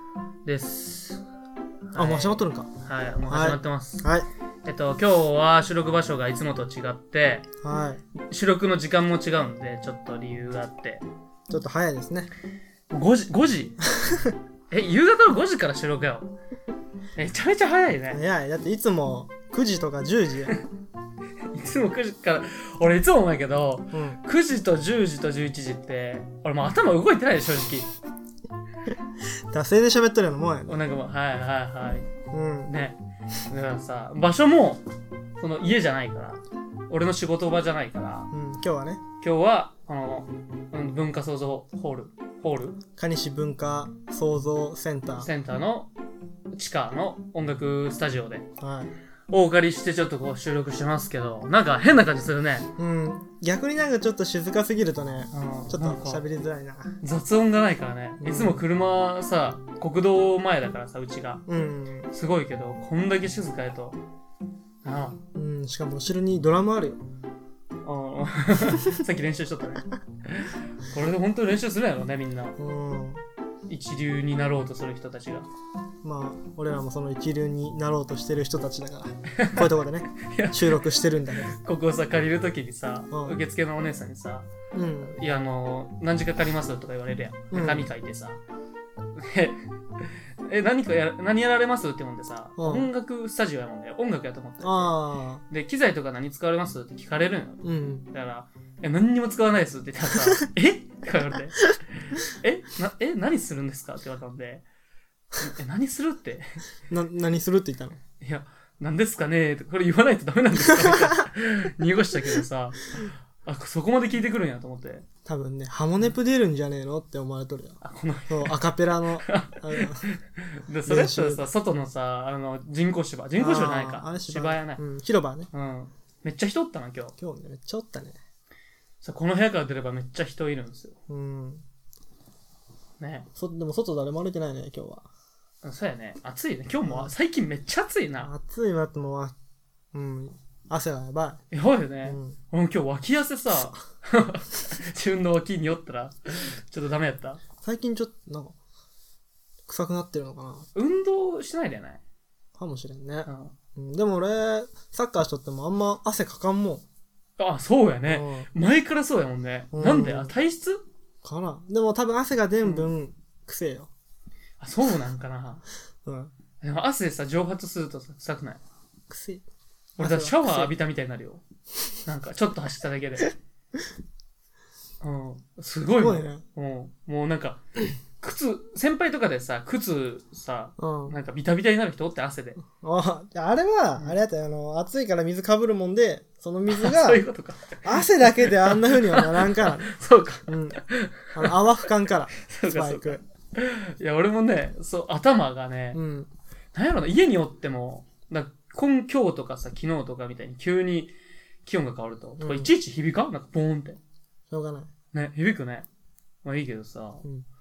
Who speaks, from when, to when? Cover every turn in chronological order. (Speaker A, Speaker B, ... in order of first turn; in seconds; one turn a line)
Speaker A: 0.5-1.2
Speaker A: 1.9-4.1
Speaker B: 2.0-2.7
Speaker B: 3.3-4.3
Speaker A: 4.7-7.5
Speaker B: 7.6-8.0
Speaker A: 8.2-11.0
Speaker B: 11.5-12.3
Speaker A: 12.9-13.8
Speaker B: 14.0-14.4
Speaker A: 14.7-16.3
Speaker A: 17.2-18.2
Speaker B: 18.1-20.5
Speaker A: 21.5-27.9
Speaker B: 23.9-24.2
Speaker B: 29.5-30.7
Speaker A: 30.7-32.1
Speaker B: 32.3-32.7
Speaker A: 32.7-34.8
Speaker A: 35.4-38.3
Speaker B: 38.3-39.0
Speaker A: 39.2-42.8
Speaker B: 43.0-45.3
Speaker A: 45.2-45.9
Speaker A: 46.5-48.5
Speaker B: 48.6-48.9
Speaker A: 49.3-52.7
Speaker B: 52.8-57.0
Speaker A: 55.3-56.2
Speaker A: 57.0-61.4
Speaker B: 58.2-58.6
Speaker B: 61.5-62.1
Speaker A: 62.1-64.0
Speaker A: 64.8-65.2
Speaker B: 65.3-67.0
Speaker A: 67.8-72.6
Speaker B: 68.6-69.0
Speaker B: 72.6-73.2
Speaker A: 73.7-75.5
Speaker B: 76.0-81.6
Speaker A: 79.3-80.8
Speaker A: 81.5-84.5
Speaker B: 83.1-83.4
Speaker B: 84.7-85.2
Speaker A: 85.1-88.4
Speaker B: 87.5-87.9
Speaker A: 89.2-95.0
Speaker B: 92.6-92.9
Speaker B: 94.6-95.4
Speaker A: 95.5-104.6
Speaker B: 97.6-98.1
Speaker A: 105.4-106.6
Speaker B: 106.9-108.0
Speaker A: 108.2-115.1
Speaker B: 110.7-111.0
Speaker B: 115.2-117.8
Speaker A: 117.8-118.6
Speaker B: 118.3-120.0
Speaker A: 119.1-124.8
Speaker B: 120.9-121.5
Speaker B: 123.4-125.5
Speaker A: 125.5-127.1
Speaker B: 127.2-128.2
Speaker A: 129.0-131.0
Speaker B: 131.1-131.7
Speaker A: 133.0-133.3
Speaker B: 133.4-135.1
Speaker A: 135.6-138.3
Speaker B: 136.8-137.1
Speaker B: 138.2-139.3
Speaker B: 139.9-141.4
Speaker A: 141.5-147.4
Speaker B: 142.1-142.4
Speaker B: 147.6-148.6
Speaker B: 149.7-150.7
Speaker A: 150.7-152.0
Speaker B: 152.6-156.8
Speaker A: 153.2-153.5
Speaker A: 157.4-160.8
Speaker B: 158.1-158.5
Speaker B: 159.7-160.3
Speaker B: 161.2-163.9
Speaker A: 162.6-162.9
Speaker A: 164.6-165.6
Speaker B: 166.0-166.3
Speaker A: 166.6-168.6
Speaker B: 169.1-169.4
Speaker B: 170.0-170.7
Speaker A: 170.0-171.4
Speaker A: 172.1-173.3
Speaker A: 175.0-177.6
Speaker B: 176.0-176.4
Speaker A: 178.2-182.6
Speaker B: 180.8-181.2
Speaker B: 182.6-187.2
Speaker A: 186.7-191.6
Speaker B: 187.8-189.9
Speaker B: 190.5-190.8
Speaker B: 191.3-193.2
Speaker A: 192.4-196.0
Speaker B: 195.9-196.3
Speaker A: 196.7-201.1
Speaker A: 201.6-204.0
Speaker B: 202.4-202.7
Speaker B: 204.5-204.9
Speaker A: 205.1-205.9
Speaker A: 206.4-207.2